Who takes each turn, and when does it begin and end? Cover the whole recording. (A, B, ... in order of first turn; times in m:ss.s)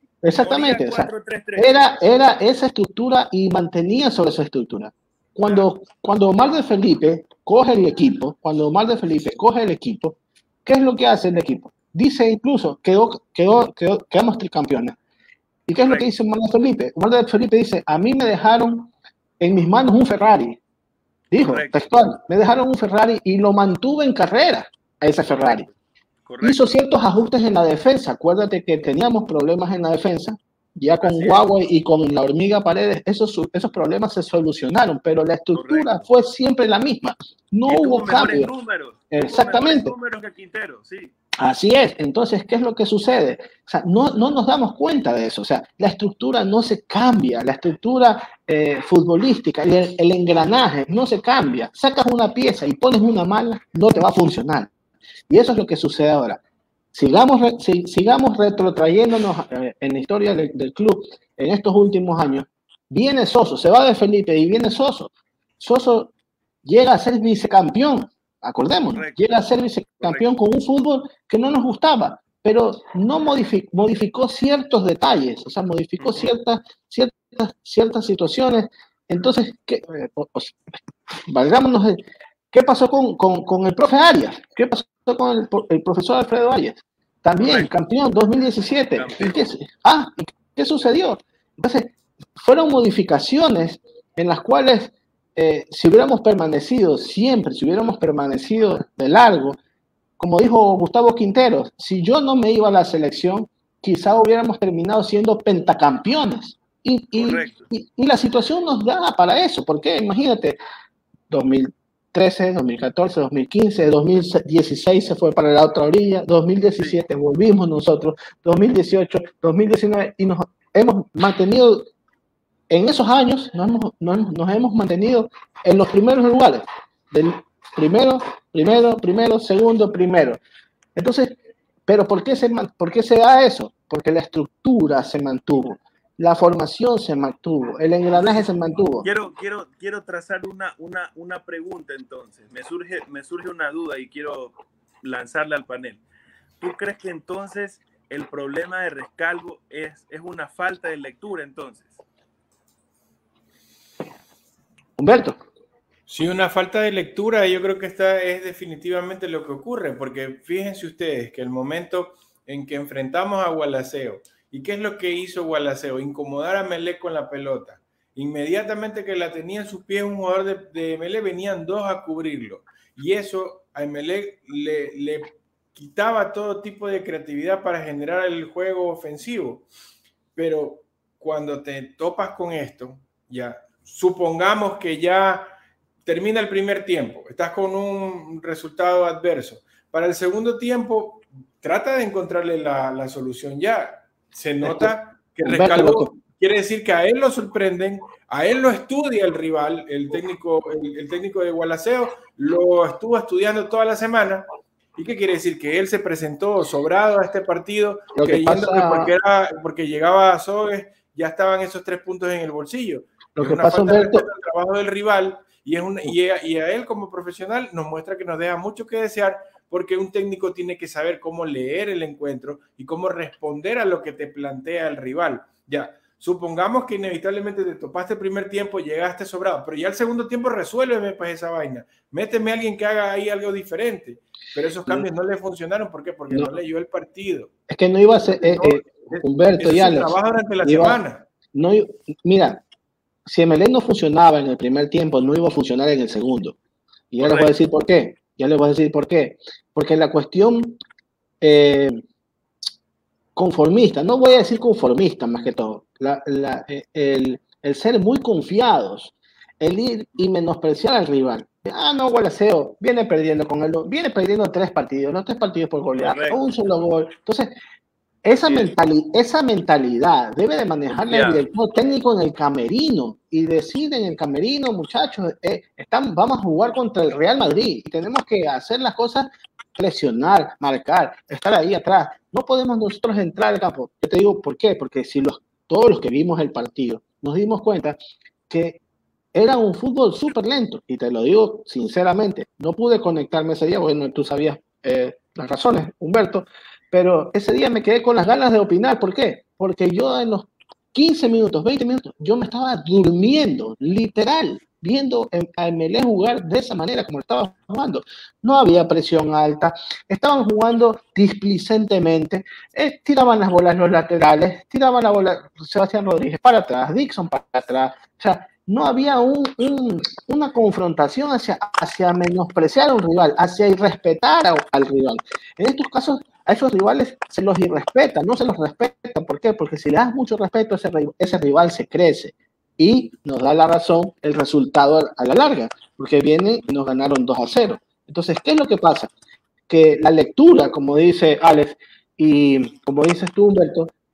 0:00.2-0:15.0 A
0:00.4-0:02.2 B
0:15.7-0:20.6 A
0:15.8-0:16.1 B
0:21.3-0:25.6 A
0:21.4-0:21.9 B
0:25.3-0:25.7 B
0:26.3-0:26.7 B
0:26.4-0:38.5 A
0:31.0-0:31.4 B
0:35.5-0:36.1 B
0:37.7-0:41.1 B
0:39.1-0:39.9 A
0:41.4-0:54.7 A
0:55.3-0:56.4 A
0:56.9-1:06.1 A
1:06.6-1:20.6 A
1:08.9-1:09.4 B
1:16.0-1:16.3 B
1:21.3-1:39.6 A
1:27.4-1:27.7 B
1:29.0-1:29.4 B
1:40.2-1:50.6 A
1:47.2-1:47.7 B
1:51.3-2:01.9 A
2:02.7-2:10.4 A
2:11.0-2:19.1 A
2:18.1-2:18.5 B
2:19.0-2:26.0 B
2:26.6-2:32.0 B
2:35.0-2:35.4 A
2:36.1-2:59.7 C
3:00.4-3:05.5 C
3:06.0-3:57.5 C
3:14.6-3:14.9 A
3:15.4-3:16.2 A
3:28.1-3:29.1 A
3:33.4-3:34.2 A
3:57.7-4:01.0 A
3:58.4-4:01.3 C
4:01.5-4:02.6 A
4:03.3-4:06.6 A
4:07.1-4:10.8 A
4:07.2-4:07.5 B
4:11.4-4:12.0 A
4:13.4-4:27.5 A
4:26.0-4:26.4 B
4:28.2-4:48.0 A
4:28.4-4:28.8 B
4:30.9-4:31.4 B
4:48.5-4:48.8 A
4:49.3-5:39.1 A
5:39.7-5:43.9 A